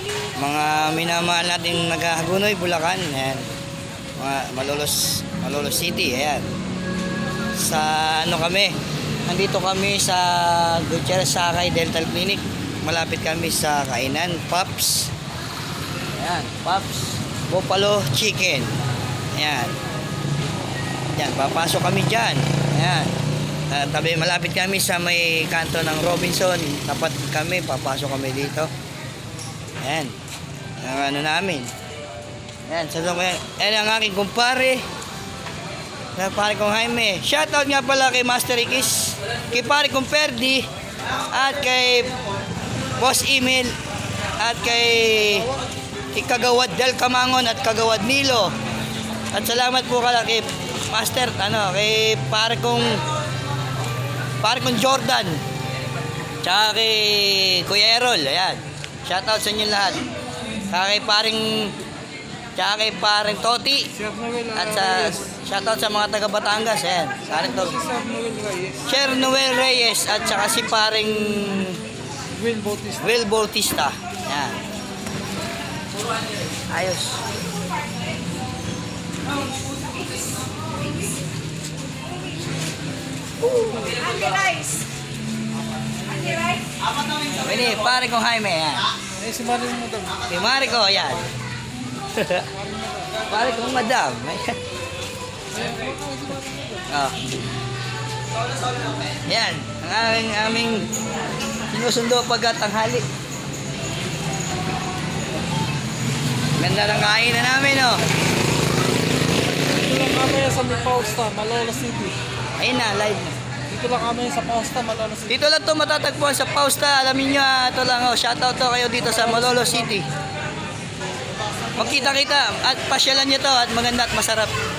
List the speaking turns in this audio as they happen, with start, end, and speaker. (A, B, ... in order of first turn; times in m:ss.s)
0:00.4-0:03.4 A
0:04.2-0:06.5 A
0:07.6-0:15.1 A
0:16.2-0:18.7 A
0:19.3-0:19.7 A
0:21.1-0:23.1 A
0:23.7-0:28.7 A
0:29.8-0:30.1 A
0:30.8-0:31.7 A
0:32.6-0:34.8 A
0:36.1-0:40.7 A
0:41.3-0:42.1 A
0:43.0-0:43.7 A
0:44.4-0:45.5 A
0:46.1-0:48.5 A
0:49.3-0:53.0 A
0:54.4-0:55.4 A
0:56.4-1:00.0 A
1:00.7-1:01.7 A
1:02.6-1:03.9 A
1:04.2-1:04.6 B
1:04.5-1:07.8 A
1:07.8-1:08.8 B
1:08.8-1:11.8 A
1:12.4-1:13.0 B
1:13.0-1:14.6 A
1:16.7-1:17.2 A
1:23.5-1:24.6 A
1:27.4-1:28.9 A
1:29.2-1:30.2 B
1:30.3-1:31.2 A
1:32.1-1:32.5 A
1:33.3-1:34.6 A
1:35.6-1:36.4 B
1:36.9-1:37.2 A
1:39.2-1:40.9 A
1:41.7-1:43.0 A
1:46.6-1:48.0 A
1:49.7-1:52.2 B
1:52.6-1:53.3 A
1:53.7-1:55.3 B
1:55.3-2:00.0 A
2:01.8-2:04.5 A